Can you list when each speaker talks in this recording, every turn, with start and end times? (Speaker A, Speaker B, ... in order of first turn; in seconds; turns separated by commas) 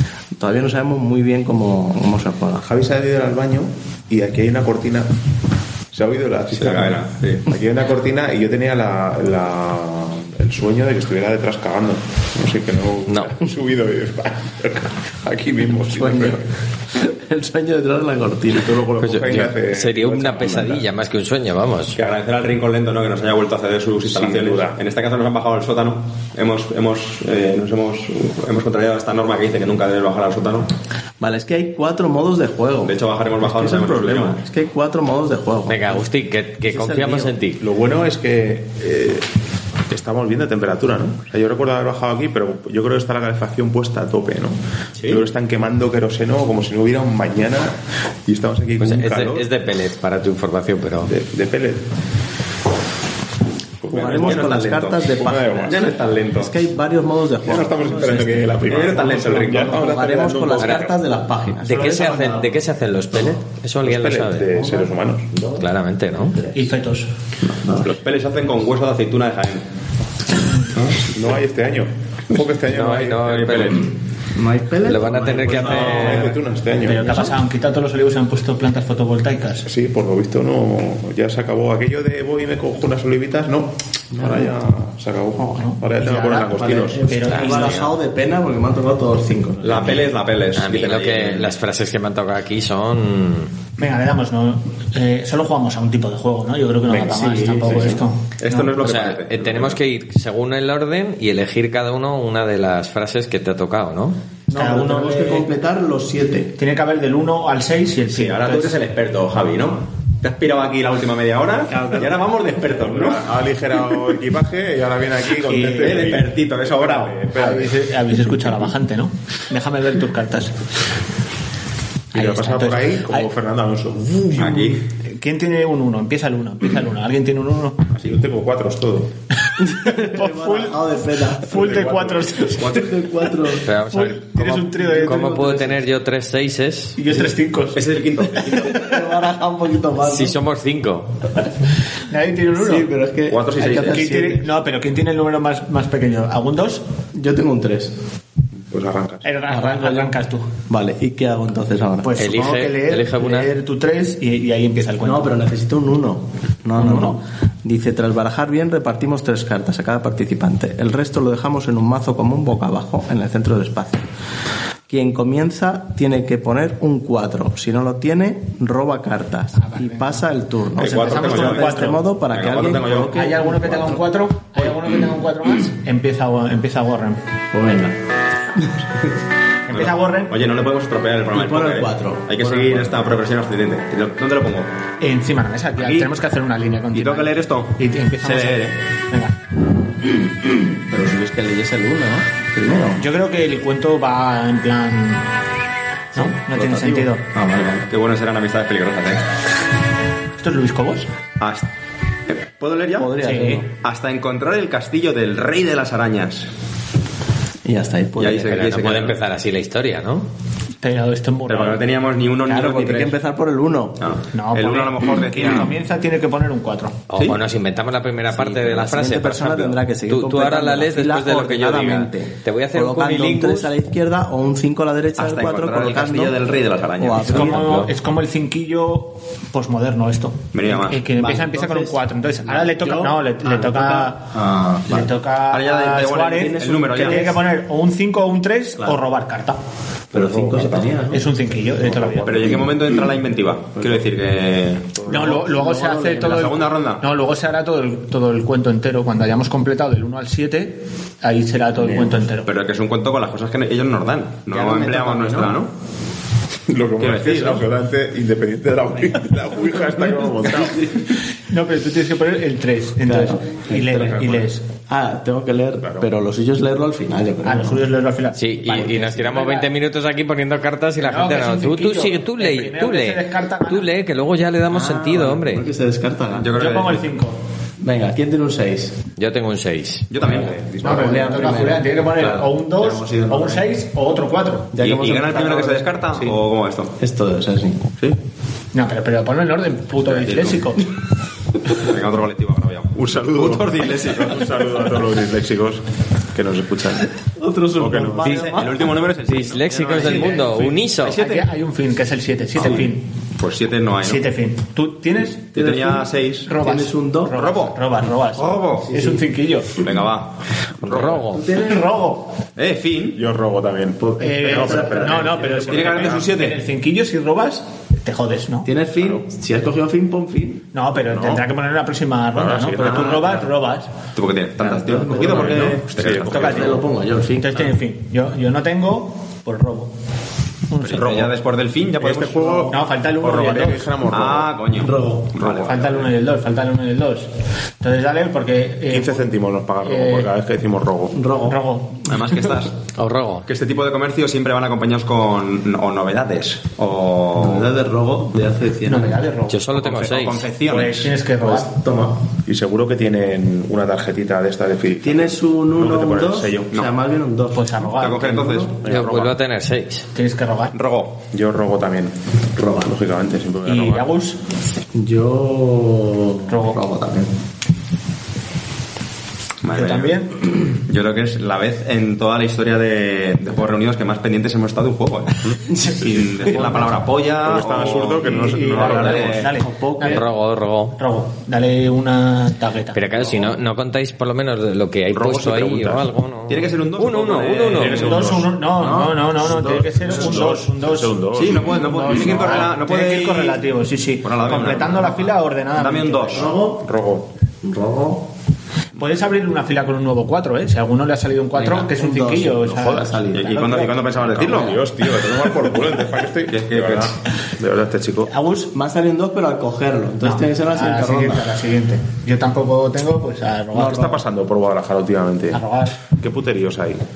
Speaker A: 0.3-2.6, Speaker B: 2.6-5.1, Speaker B: 5.9-16.4, Speaker C: 6.5-7.5, Speaker D: 13.1-13.3, Speaker A: 15.9-18.9, Speaker B: 18.5-20.9, Speaker D: 19.0-22.0, Speaker C: 21.9-30.7, Speaker B: 24.0-24.8, Speaker A: 31.2-36.1, Speaker C: 32.8-34.4, Speaker D: 35.7-37.6, Speaker A: 36.6-37.3, Speaker B: 37.6-39.2, Speaker B: 39.9-49.5, Speaker C: 45.0-45.2, Speaker D: 48.8-51.1, Speaker B: 51.0-51.8, Speaker B: 53.8-55.9, Speaker A: 53.9-62.5, Speaker C: 54.0-56.5, Speaker B: 57.4-60.9, Speaker C: 58.6-59.8, Speaker D: 60.6-60.9, Speaker D: 61.6-64.5, Speaker E: 61.7-62.4, Speaker B: 63.8-65.3, Speaker A: 64.4-65.7, Speaker D: 65.5-66.4, Speaker A: 66.3-66.6, Speaker E: 66.5-67.1, Speaker A: 67.4-68.0, Speaker C: 67.9-69.6, Speaker A: 70.7-71.0, Speaker B: 71.0-73.8, Speaker D: 72.6-73.9, Speaker C: 73.3-73.9, Speaker A: 74.3-77.4, Speaker D: 74.8-76.3, Speaker B: 75.6-77.3, Speaker E: 76.8-79.7, Speaker B: 79.6-87.0, Speaker A: 84.1-84.6, Speaker E: 85.6-87.8, Speaker A: 86.5-90.1, Speaker D: 87.3-88.0, Speaker C: 89.6-91.5, Speaker D: 90.5-93.5, Speaker E: 93.8-98.7, Speaker B: 96.9-97.2, Speaker A: 96.9-98.0, Speaker C: 98.4-99.8, Speaker D: 98.8-104.2, Speaker A: 104.5-106.5, Speaker E: 104.5-105.5, Speaker E: 106.6-108.8, Speaker C: 108.1-113.2, Speaker A: 111.7-112.3, Speaker B: 112.7-118.6, Speaker E: 115.5-116.1, Speaker C: 115.6-117.2, Speaker E: 117.3-120.6, Speaker E: 122.1-123.3, Speaker B: 122.1-124.7, Speaker C: 124.3-124.8, Speaker E: 125.0-127.8, Speaker B: 127.9-129.1, Speaker E: 129.6-130.8, Speaker A: 129.6-131.8, Speaker E: 131.4-132.8, Speaker B: 131.5-132.5, Speaker A: 132.6-133.7, Speaker D: 133.6-137.0, Speaker E: 133.9-135.7, Speaker A: 134.8-135.8, Speaker E: 137.0-139.0, Speaker C: 137.7-138.7, Speaker A: 138.3-140.4, Speaker D: 140.0-141.2, Speaker E: 142.1-142.9, Speaker A: 142.5-144.6, Speaker C: 143.3-144.0, Speaker E: 143.6-146.8, Speaker A: 147.1-147.9, Speaker B: 148.7-149.2, Speaker E: 149.2-150.5, Speaker A: 149.5-152.2, Speaker E: 152.0-155.3, Speaker D: 152.2-153.5, Speaker A: 155.0-164.1, Speaker E: 156.8-157.2, Speaker A: 164.9-174.0, Speaker E: 169.6-170.2, Speaker C: 170.8-173.2, Speaker E: 170.8-172.0, Speaker E: 173.1-177.2, Speaker A: 177.5-178.0, Speaker A: 178.5-178.9, Speaker E: 179.7-180.4, Speaker C: 179.7-184.7, Speaker A: 181.3-183.2, Speaker E: 185.0-189.3, Speaker C: 185.8-186.1, Speaker C: 186.9-188.8, Speaker A: 190.7-193.1, Speaker E: 193.0-195.2, Speaker E: 196.1-197.2, Speaker A: 196.2-197.9, Speaker C: 197.9-199.2, Speaker E: 200.4-201.1, Speaker C: 201.4-201.7, Speaker C: 202.3-203.1, Speaker A: 202.9-203.7, Speaker E: 203.2-203.6, Speaker C: 203.7-206.5, Speaker A: 207.6-208.6, Speaker C: 208.2-209.2, Speaker D: 208.5-210.3, Speaker E: 210.8-211.8, Speaker C: 211.5-213.1, Speaker A: 212.4-214.0, Speaker C: 214.0-215.7, Speaker E: 214.3-217.0, Speaker D: 217.1-223.7, Speaker A: 218.3-226.4, Speaker C: 225.2-227.5, Speaker A: 227.0-227.9, Speaker E: 227.2-234.3, Speaker D: 227.5-227.8, Speaker C: 230.5-231.0, Speaker A: 231.1-235.1, Speaker E: 234.9-239.6, Speaker C: 235.5-237.4, Speaker A: 236.3-237.4, Speaker B: 240.1-241.0, Speaker A: 240.1-241.2, Speaker E: 241.1-242.4, Speaker B: 241.5-242.8, Speaker C: 242.2-244.9, Speaker A: 243.8-244.0, Speaker B: 245.0-245.4, Speaker A: 245.0-246.6, Speaker E: 245.1-252.5, Speaker C: 246.2-247.0, Speaker C: 252.4-255.7, Speaker A: 254.5-255.6, Speaker B: 256.7-261.0, Speaker C: 257.0-257.7, Speaker A: 259.9-260.9, Speaker E: 261.5-264.6, Speaker A: 263.0-267.9, Speaker B: 265.8-266.1, Speaker E: 267.4-269.7, Speaker D: 268.3-275.7, Speaker E: 271.0-273.9, Speaker A: 274.7-276.6, Speaker C: 276.3-277.1, Speaker E: 276.5-277.4, Speaker A: 277.8-279.0, Speaker D: 279.2-280.1, Speaker C: 280.1-280.7, Speaker B: 280.2-281.1, Speaker A: 280.2-283.7, Speaker E: 280.8-284.8, Speaker A: 284.7-285.9, Speaker C: 284.8-286.9, Speaker A: 287.0-287.9, Speaker E: 288.7-290.9, Speaker C: 290.0-290.7, Speaker C: 291.7-294.5, Speaker B: 292.9-297.1, Speaker A: 297.2-298.9, Speaker B: 297.8-298.4, Speaker C: 298.4-301.5, Speaker D: 299.2-301.2, Speaker E: 300.0-300.4, Speaker E: 301.1-303.1, Speaker C: 302.6-304.3, Speaker E: 304.0-305.6, Speaker C: 305.5-306.5, Speaker A: 305.5-307.4, Speaker E: 306.4-309.8, Speaker C: 307.3-308.9, Speaker A: 308.8-309.3, Speaker C: 309.8-311.2, Speaker D: 310.8-311.4, Speaker A: 311.2-311.9, Speaker E: 311.5-312.3, Speaker C: 312.6-313.2, Speaker B: 313.1-316.3, Speaker A: 314.0-315.9, Speaker E: 314.2-318.7, Speaker C: 315.6-316.6, Speaker A: 318.6-320.6, Speaker E: 320.7-323.9, Speaker B: 321.0-321.4, Speaker B: 322.3-323.5, Speaker C: 322.8-323.3, Speaker C: 324.1-326.7, Speaker A: 324.6-327.8, Speaker B: 325.2-326.9, Speaker E: 326.3-326.8, Speaker E: 327.4-329.9, Speaker E: 330.7-331.2, Speaker C: 330.8-332.6, Speaker B: 330.9-331.3, Speaker B: 332.0-334.5, Speaker A: 332.4-332.7, Speaker E: 332.7-333.9, Speaker C: 334.1-336.1, Speaker A: 334.7-335.4, Speaker B: 335.4-335.8, Speaker E: 335.6-337.3, Speaker E: 337.8-339.2, Speaker B: 338.9-341.2, Speaker E: 339.8-340.3, Speaker A: 341.1-341.6, Speaker E: 341.4-342.1, Speaker C: 342.1-342.7, Speaker D: 342.9-343.4, Speaker C: 343.4-347.7, Speaker A: 347.3-349.3, Speaker E: 348.8-349.6, Speaker D: 349.5-350.5, Speaker C: 349.8-351.1, Speaker E: 350.6-351.7, Speaker A: 351.4-352.2, Speaker B: 352.4-356.8, Speaker A: 355.0-358.7, Speaker E: 357.5-358.4, Speaker C: 358.0-358.8, Speaker B: 358.8-359.4, Speaker D: 358.9-360.1, Speaker E: 360.1-360.8, Speaker C: 360.7-361.2, Speaker B: 361.3-364.1, Speaker A: 362.5-362.9, Speaker E: 363.6-364.4, Speaker A: 364.9-367.3, Speaker E: 366.5-366.8, Speaker C: 369.6-375.4, Speaker E: 369.7-370.3, Speaker A: 375.7-377.0, Speaker C: 376.0-379.5, Speaker B: 377.4-379.4, Speaker E: 378.2-380.2, Speaker A: 378.8-380.2, Speaker D: 380.0-381.0, Speaker E: 380.9-383.0, Speaker D: 382.9-388.1, Speaker B: 385.1-386.1, Speaker C: 386.5-388.2, Speaker B: 387.7-388.5, Speaker E: 388.0-396.5, Speaker A: 388.8-390.6, Speaker B: 389.5-392.6, Speaker C: 391.3-393.6, Speaker C: 394.2-396.5, Speaker A: 396.3-396.9, Speaker B: 396.7-397.3, Speaker A: 397.6-398.3, Speaker E: 399.0-403.8, Speaker A: 401.5-403.9, Speaker C: 403.3-404.9, Speaker B: 403.6-408.3, Speaker C: 406.5-407.1, Speaker E: 408.3-408.7, Speaker A: 408.7-411.6, Speaker E: 410.2-414.2, Speaker A: 413.7-414.2, Speaker B: 413.8-417.0, Speaker E: 415.5-416.0